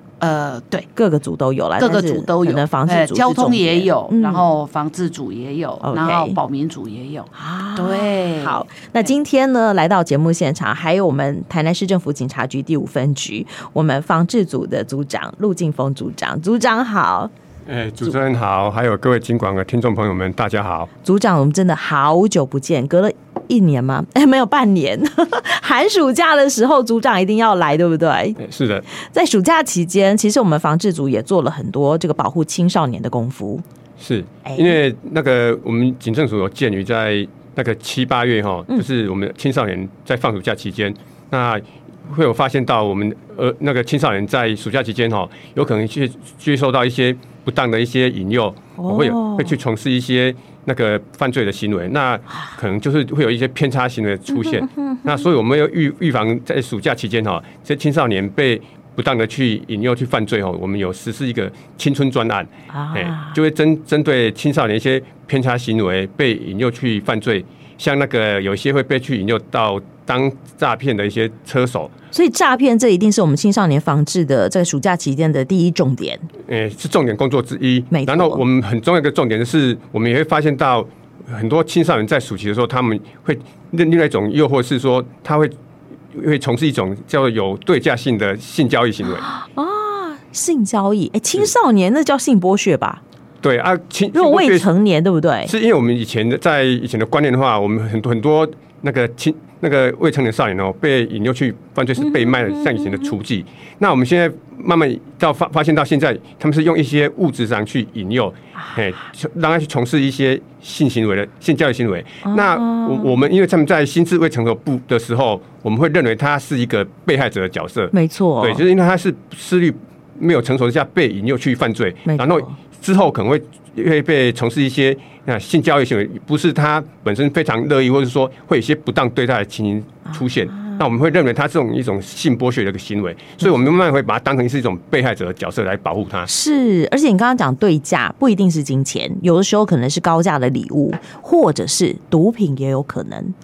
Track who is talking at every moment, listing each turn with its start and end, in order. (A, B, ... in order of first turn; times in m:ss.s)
0:00.2-0:00.9 A
0:01.0-0:04.4 B
0:01.8-0:09.1 A
0:05.8-0:06.4 B
0:07.4-0:17.3 B
0:17.7-0:20.9 C
0:21.0-0:28.4 B
0:28.4-0:28.8 C
0:28.9-0:33.6 B
0:34.0-1:11.9 C
0:34.4-0:34.8 B
0:48.8-0:49.5 B
0:54.3-0:55.2 B
1:02.7-1:03.4 B
1:12.1-1:16.2 B
1:16.5-1:25.5 C
1:17.9-1:18.4 B
1:26.1-1:29.3 C
1:29.2-1:33.0 B
1:33.4-1:34.7 C
1:34.1-1:35.5 B
1:35.5-2:16.3 C
1:42.0-1:43.1 B
1:52.2-1:53.2 B
1:57.9-1:58.6 B
2:02.0-2:02.6 B
2:10.1-2:10.8 B
2:16.3-2:23.3 B